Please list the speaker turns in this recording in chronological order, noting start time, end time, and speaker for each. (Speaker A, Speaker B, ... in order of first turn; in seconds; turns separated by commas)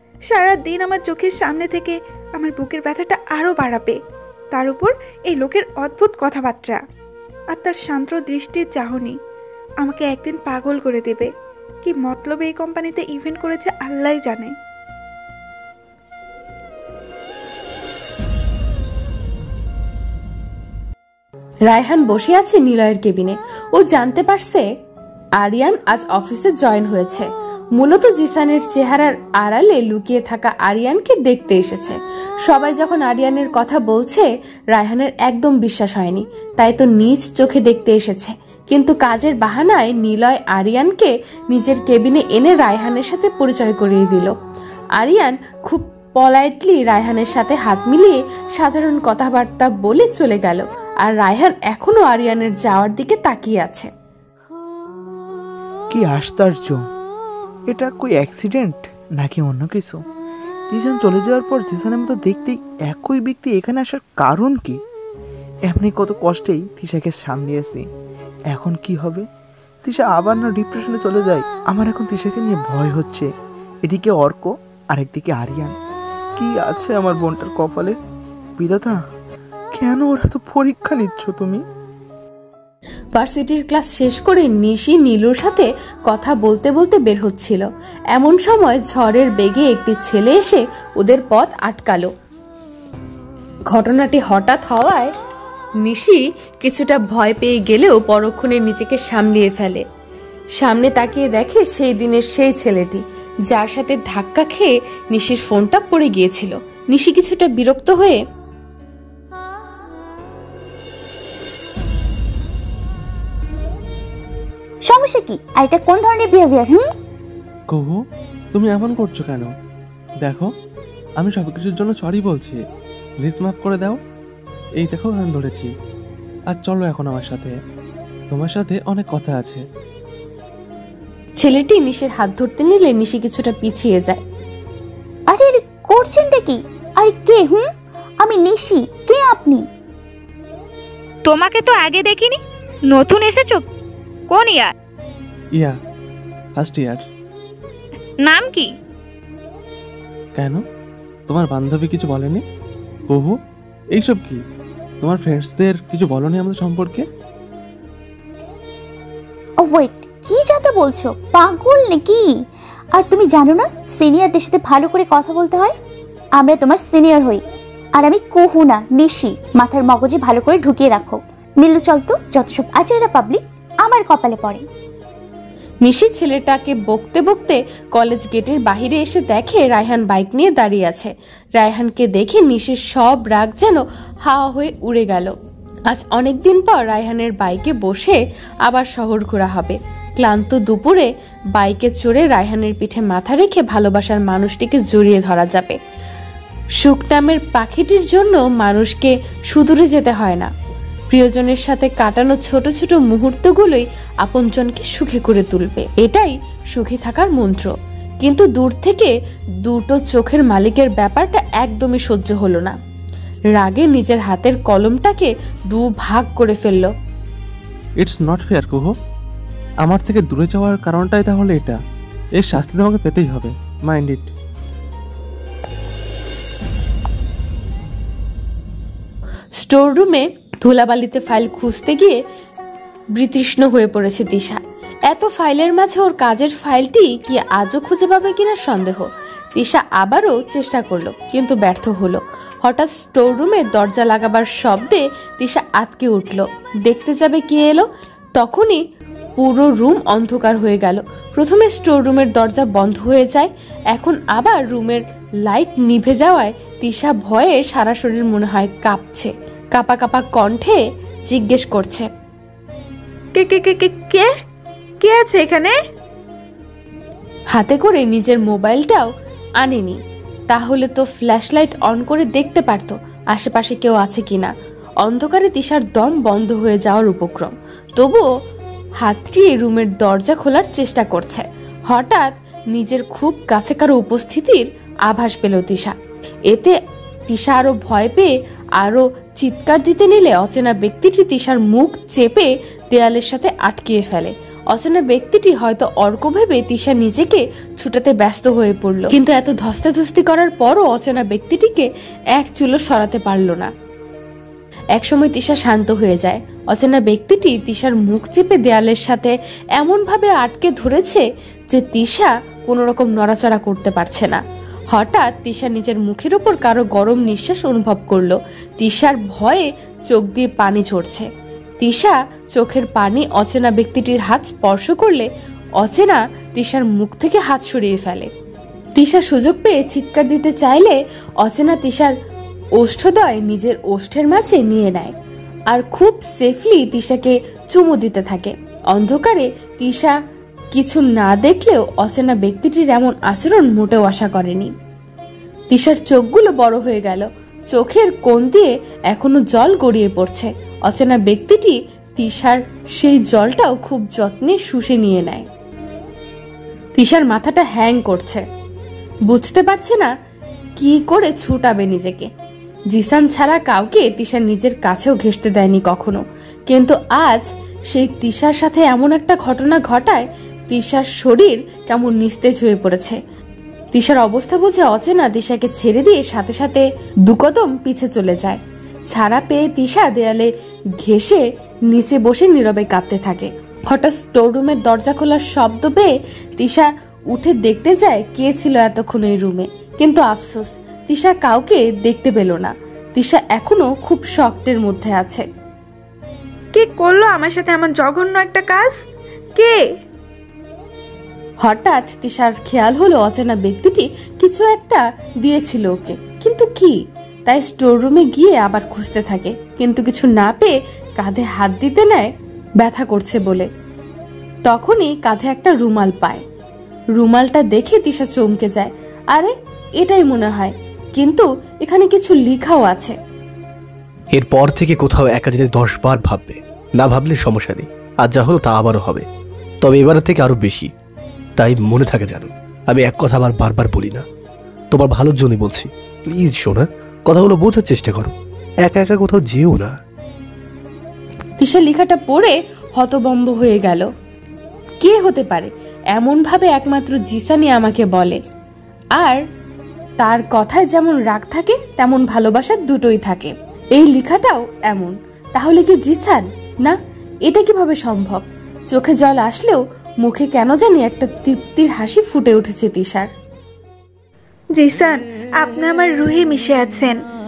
Speaker A: 0.3-4.0, Speaker A: 4.5-6.8, Speaker A: 7.5-9.2, Speaker A: 9.8-11.3, Speaker A: 11.8-14.5, Speaker B: 21.7-24.6, Speaker B: 25.4-44.3, Speaker B: 45.0-53.9, Speaker C: 55.9-56.8, Speaker C: 57.7-60.0, Speaker C: 60.7-64.8, Speaker C: 65.7-67.8, Speaker C: 68.5-69.2, Speaker C: 69.8-73.3, Speaker C: 73.8-75.7, Speaker C: 76.4-78.0, Speaker C: 78.6-79.0, Speaker C: 79.7-81.6, Speaker B: 83.1-92.1, Speaker B: 93.7-95.1, Speaker B: 95.8-99.8, Speaker B: 100.6-108.2, Speaker D: 114.8-116.9, Speaker E: 117.7-118.0, Speaker E: 118.5-119.5, Speaker E: 120.2-120.5, Speaker E: 121.2-122.6, Speaker E: 123.2-124.0, Speaker E: 124.8-125.7, Speaker E: 126.5-127.6, Speaker E: 128.3-129.6, Speaker B: 131.4-134.2, Speaker D: 135.3-137.7, Speaker D: 138.2-139.6, Speaker F: 141.2-143.7, Speaker F: 144.3-144.7, Speaker E: 146.5-147.0, Speaker F: 148.2-148.7, Speaker E: 150.3-150.6, Speaker E: 151.3-152.4, Speaker E: 153.1-153.4, Speaker E: 153.9-154.4, Speaker E: 155.0-157.1, Speaker D: 159.6-162.3, Speaker D: 162.9-165.7, Speaker D: 166.3-167.4, Speaker D: 167.9-174.6, Speaker B: 175.8-185.3, Speaker B: 185.9-195.8, Speaker B: 196.8-200.5, Speaker B: 201.1-209.1, Speaker B: 209.6-212.8, Speaker B: 213.6-216.9, Speaker E: 218.0-218.9, Speaker E: 219.8-221.8, Speaker E: 222.4-224.3, Speaker B: 229.5-232.2, Speaker B: 233.2-248.8, Speaker B: 249.4-262.1, Speaker A: 263.3-264.3, Speaker A: 265.0-265.7, Speaker B: 267.5-269.1, Speaker B: 269.6-270.0, Speaker B: 270.5-278.2, Speaker B: 279.0-285.9, Speaker B: 286.5-286.8, Speaker B: 287.3-303.7, Speaker B: 304.9-314.4, Speaker B: 314.9-321.3, Speaker B: 321.8-325.3, Speaker B: 325.8-328.3, Speaker B: 328.9-332.1, Speaker B: 332.8-335.1, Speaker B: 335.7-340.1, Speaker B: 340.7-344.7, Speaker B: 345.7-355.5, Speaker B: 356.9-358.4, Speaker B: 359.3-360.1, Speaker B: 360.8-362.3, Speaker B: 362.9-373.2, Speaker B: 373.9-378.6, Speaker B: 379.1-395.4, Speaker A: 396.7-398.9, Speaker B: 401.6-413.7, Speaker B: 414.6-416.4, Speaker B: 417.2-423.1, Speaker G: 424.4-429.2, Speaker G: 429.8-430.9, Speaker G: 431.6-434.2, Speaker G: 434.9-438.3, Speaker G: 438.8-439.9, Speaker B: 441.6-444.1, Speaker B: 445.0-448.4, Speaker B: 449.1-449.4, Speaker B: 450.2-463.3, Speaker A: 464.8-467.2